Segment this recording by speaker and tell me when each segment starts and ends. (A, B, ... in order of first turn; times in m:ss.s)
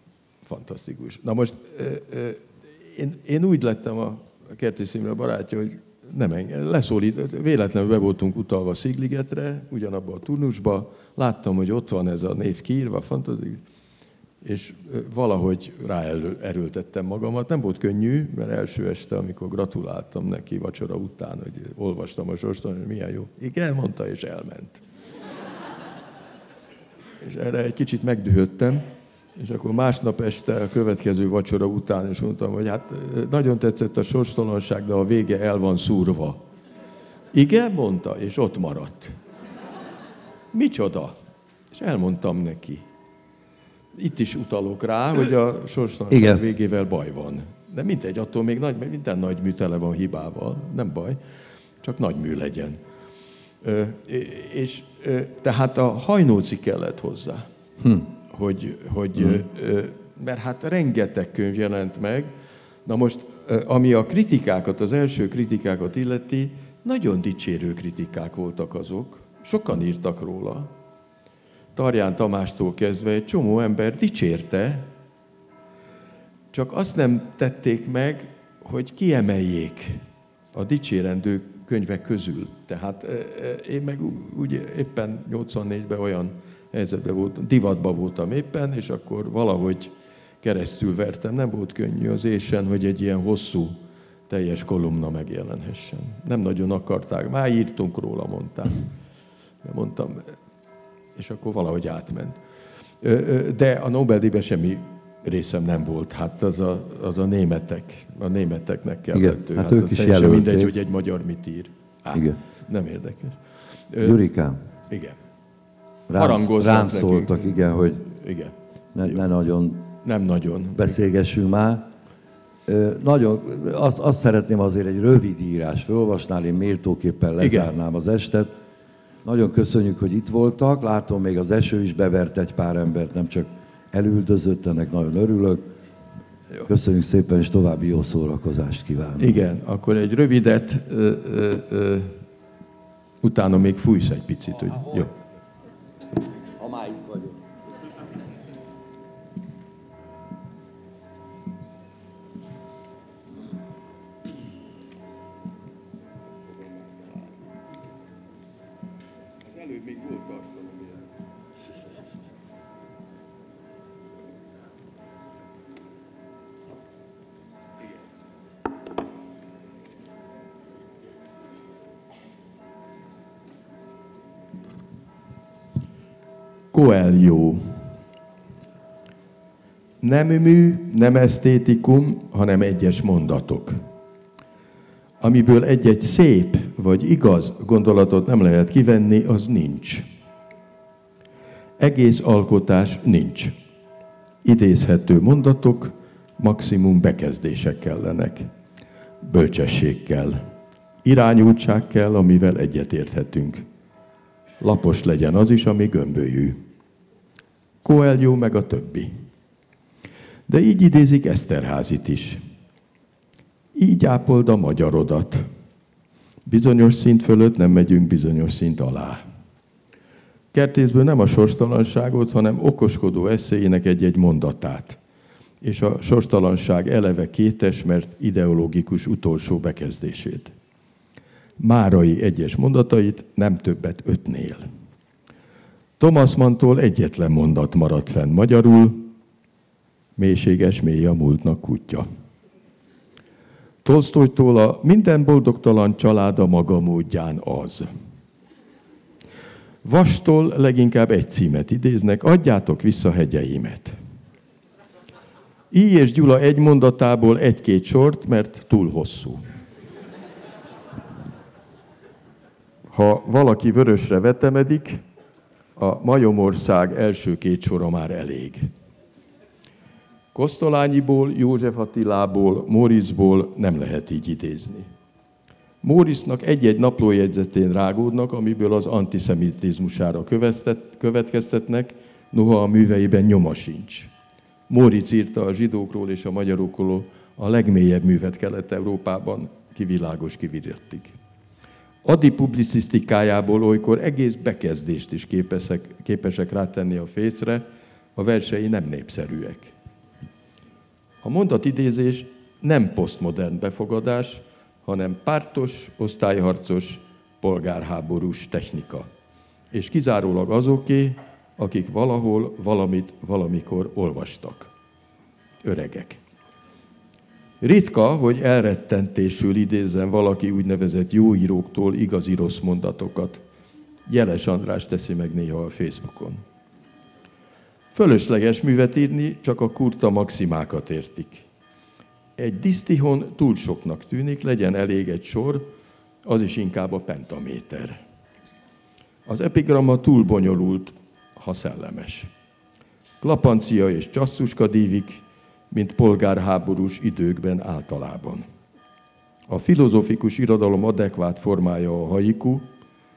0:00.5-0:13.6 A
0:14.4-0:24.8 A
0:27.2-0:28.8 A
0:29.4-0:36.4 A
0:37.3-0:39.1 A
0:40.5-0:41.2 A
0:41.7-0:42.9 A
0:44.0-0:51.2 A
0:46.1-0:46.4 B
0:51.8-0:52.8 A
0:53.6-0:57.5 A
0:57.8-0:58.1 B
0:58.2-1:02.3 A
1:02.8-1:10.7 A
1:11.8-1:14.9 A
1:16.5-1:20.0 A
1:20.5-1:38.9 A
1:39.6-1:40.4 A
1:41.2-1:42.4 A
1:43.0-1:53.4 A
1:49.1-1:50.7 B
1:53.9-1:54.2 A
1:54.0-1:54.6 B
1:54.9-1:55.2 A
1:56.1-1:58.0 B
1:56.2-1:58.6 A
1:58.9-1:59.9 B
2:00.0-2:01.0 A
2:00.8-2:01.9 B
2:02.7-2:08.5 B
2:07.4-2:07.7 A
2:09.2-2:15.7 B
2:16.7-2:19.5 B
2:19.2-2:22.2 A
2:23.2-2:25.1 A
2:26.3-2:27.4 B
2:36.9-2:37.2 A
2:39.4-2:41.1 A
2:56.7-2:57.9 A
3:00.0-3:03.8 A
3:05.2-3:10.0 A
3:11.8-3:13.5 A
3:14.4-3:18.5 A
3:19.2-3:20.4 A
3:21.0-3:23.6 A
3:24.6-3:26.6 A
3:27.8-3:29.1 A
3:30.5-3:32.4 A
3:33.8-3:35.4 A
3:36.5-3:39.2 A
3:40.5-3:45.0 A
3:45.6-3:50.5 A
3:51.6-3:54.6 A
3:56.0-3:59.1 A
4:00.2-4:02.1 A
4:03.8-4:07.9 A
4:09.8-4:14.0 A
4:15.7-4:19.4 A
4:22.9-4:25.0 A
4:25.8-4:28.7 A
4:30.3-4:34.9 A
4:35.8-4:44.1 A
4:44.7-4:51.2 A
4:52.0-4:57.6 A
4:58.2-4:59.8 A
5:01.2-5:09.1 A
5:09.7-5:14.7 A
5:15.6-5:16.2 A
5:17.6-5:23.4 A
5:24.1-5:26.4 A
5:27.9-5:31.5 A
5:32.4-5:35.7 A
5:36.2-5:38.0 A
5:39.3-5:42.3 A
5:43.2-5:48.4 A
5:49.5-5:52.7 A